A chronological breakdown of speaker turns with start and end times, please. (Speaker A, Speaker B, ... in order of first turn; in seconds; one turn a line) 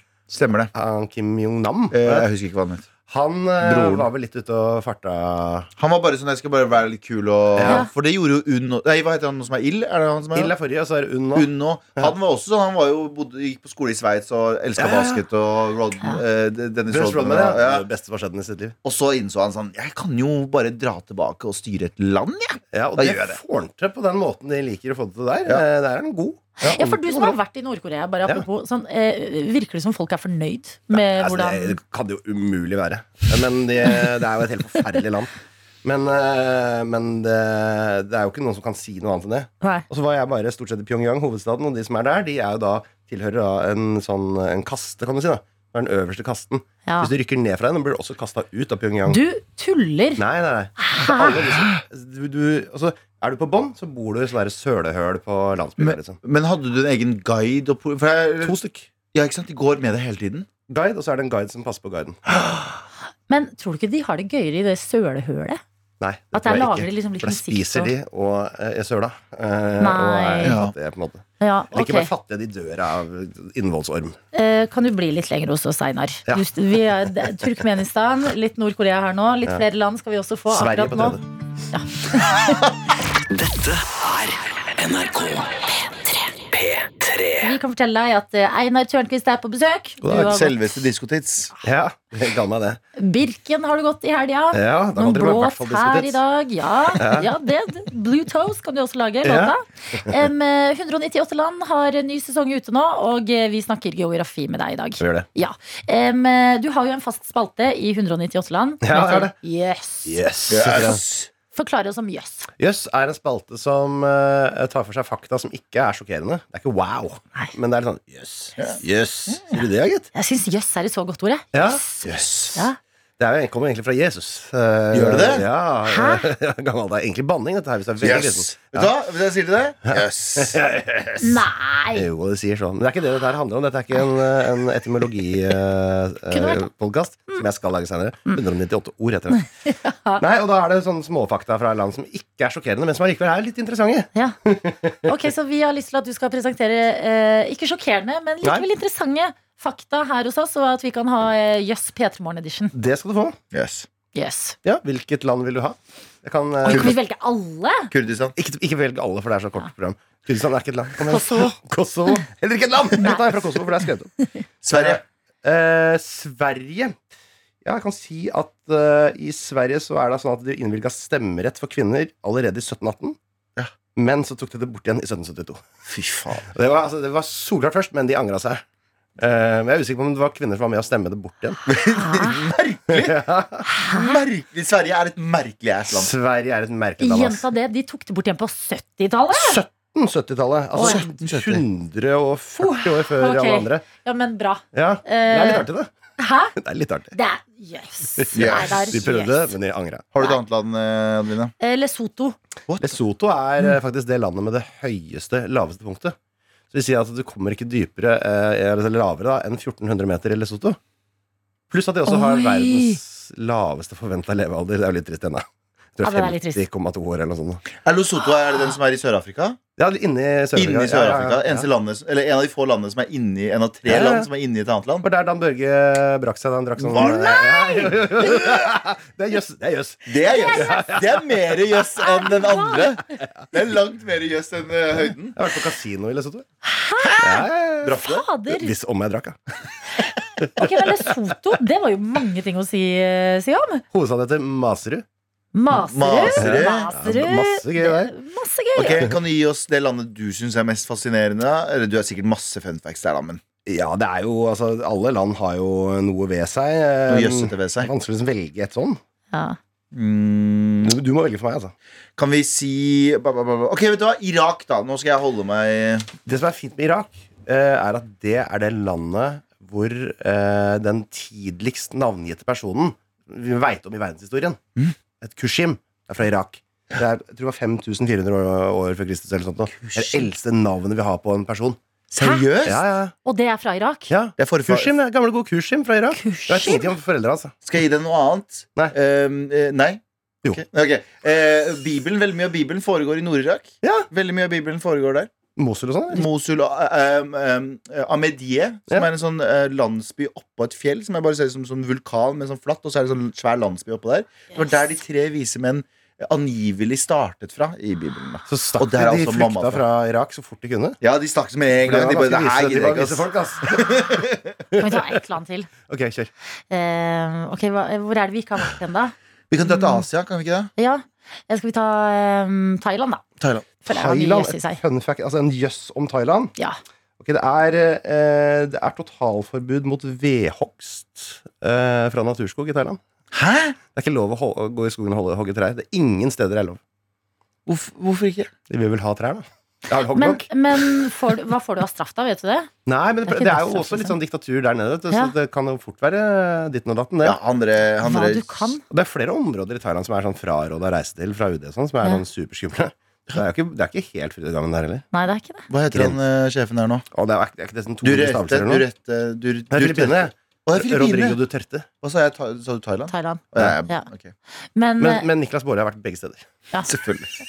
Speaker A: 0.3-0.7
Speaker B: 0.7-2.3
Speaker A: 1.9-2.9
Speaker B: 3.0-5.7
Speaker A: 3.6-4.1
Speaker A: 5.8-10.5
Speaker B: 7.5-7.8
Speaker C: 7.6-7.9
Speaker B: 10.3-12.1
Speaker A: 11.3-17.9
Speaker B: 14.8-15.2
Speaker B: 16.9-18.8
Speaker A: 18.8-23.4
Speaker B: 22.7-27.4
Speaker C: 26.6-31.8
Speaker B: 30.9-35.3
Speaker B: 35.8-49.2
Speaker C: 46.9-47.1
Speaker C: 49.1-50.2
Speaker B: 50.2-56.2
Speaker C: 50.8-51.4
Speaker A: 55.8-58.6
Speaker B: 58.4-58.9
Speaker A: 59.1-60.5
Speaker B: 60.7-62.2
Speaker C: 63.3-65.6
Speaker B: 66.0-74.2
Speaker C: 66.3-67.9
Speaker C: 69.8-70.6
Speaker A: 70.4-70.7
Speaker C: 71.4-72.1
Speaker C: 74.3-81.2
Speaker B: 80.5-81.2
Speaker C: 81.7-82.6
Speaker D: 83.3-87.5
Speaker C: 87.4-90.5
Speaker B: 90.0-90.4
Speaker A: 90.1-91.5
Speaker B: 91.6-92.8
Speaker C: 93.0-110.2
Speaker B: 94.5-96.2
Speaker B: 96.9-97.3
Speaker B: 99.2-99.5
Speaker B: 105.0-105.3
Speaker B: 108.8-109.3
Speaker B: 110.0-111.0
Speaker A: 110.5-111.3
Speaker C: 111.5-112.5
Speaker B: 112.6-120.1
Speaker A: 118.6-119.5
Speaker C: 120.1-122.8
Speaker B: 121.5-122.7
Speaker B: 123.2-128.9
Speaker A: 124.9-125.4
Speaker C: 125.8-126.3
Speaker A: 128.0-130.6
Speaker B: 129.8-131.4
Speaker C: 131.2-132.1
Speaker B: 131.9-139.5
Speaker C: 136.3-136.6
Speaker C: 139.3-140.2
Speaker B: 140.2-145.1
Speaker C: 145.0-152.7
Speaker B: 152.7-153.4
Speaker A: 153.5-153.9
Speaker C: 154.1-154.6
Speaker B: 154.6-157.0
Speaker C: 156.6-157.9
Speaker A: 157.9-158.3
Speaker B: 158.3-164.1
Speaker C: 161.1-161.5
Speaker C: 163.0-163.2
Speaker A: 164.6-165.0
Speaker B: 164.7-167.0
Speaker B: 167.6-173.2
Speaker B: 173.9-175.6
Speaker A: 175.9-176.5
Speaker B: 176.4-178.6
Speaker B: 179.2-181.6
Speaker A: 181.7-183.2
Speaker C: 181.9-182.5
Speaker B: 182.9-183.6
Speaker C: 183.6-184.2
Speaker A: 183.8-186.1
Speaker B: 185.9-187.4
Speaker C: 187.0-189.6
Speaker B: 189.3-193.8
Speaker C: 190.7-191.1
Speaker A: 190.7-191.6
Speaker C: 192.6-195.7
Speaker B: 194.7-195.9
Speaker C: 196.2-196.5
Speaker B: 196.6-197.1
Speaker C: 197.1-199.5
Speaker B: 198.2-200.1
Speaker A: 198.3-198.9
Speaker A: 200.1-201.5
Speaker C: 201.6-202.3
Speaker B: 202.8-206.2
Speaker B: 206.7-210.8
Speaker B: 211.7-217.6
Speaker C: 212.1-213.0
Speaker C: 216.0-216.6
Speaker A: 217.8-219.6
Speaker B: 219.8-221.7
Speaker A: 220.5-225.1
Speaker B: 223.9-224.3
Speaker B: 225.0-231.6
Speaker A: 226.8-227.5
Speaker C: 226.9-227.9
Speaker A: 230.1-235.4
Speaker C: 230.2-230.9
Speaker C: 232.0-232.9
Speaker B: 235.3-236.4
Speaker C: 236.6-238.7
Speaker B: 237.2-239.4
Speaker A: 237.8-238.2
Speaker B: 240.4-240.9
Speaker C: 240.6-243.8
Speaker B: 243.9-245.1
Speaker C: 245.5-249.0
Speaker A: 245.7-246.9
Speaker B: 246.3-248.1
Speaker A: 248.8-253.4
Speaker B: 253.7-259.0
Speaker A: 257.1-257.9
Speaker C: 259.3-259.6
Speaker A: 259.9-260.9
Speaker B: 260.8-261.7
Speaker A: 262.2-266.1
Speaker B: 266.2-274.6
Speaker B: 275.2-281.8
Speaker A: 279.7-280.3
Speaker A: 282.1-282.8
Speaker C: 282.2-282.5
Speaker B: 282.6-283.1
Speaker C: 283.2-284.1
Speaker B: 284.1-287.6
Speaker A: 284.4-284.9
Speaker C: 286.1-286.9
Speaker A: 287.6-295.3
Speaker B: 293.8-294.1
Speaker B: 295.6-296.3
Speaker A: 296.1-309.8
Speaker B: 308.5-311.0
Speaker A: 311.0-314.6
Speaker B: 311.8-314.2
Speaker B: 314.7-315.1
Speaker C: 314.7-315.7
Speaker B: 315.8-316.3
Speaker C: 316.7-319.1
Speaker A: 319.5-320.7
Speaker C: 319.6-320.0
Speaker C: 320.8-323.2
Speaker A: 323.4-323.7
Speaker B: 323.8-326.5
Speaker C: 323.9-324.8
Speaker B: 327.2-333.0
Speaker A: 333.3-333.8
Speaker B: 333.9-336.8
Speaker A: 337.6-338.5
Speaker B: 338.7-340.5
Speaker C: 340.1-342.7
Speaker B: 342.9-347.4
Speaker C: 343.2-344.1
Speaker A: 347.2-348.7
Speaker C: 348.0-348.8
Speaker B: 348.9-355.0
Speaker C: 355.1-355.7
Speaker A: 355.7-357.0
Speaker B: 355.9-356.1
Speaker B: 357.1-358.9
Speaker A: 358.0-361.4
Speaker B: 359.7-361.9
Speaker A: 362.0-364.3
Speaker C: 363.1-364.1
Speaker C: 364.8-365.3
Speaker B: 365.0-366.5
Speaker A: 366.9-367.3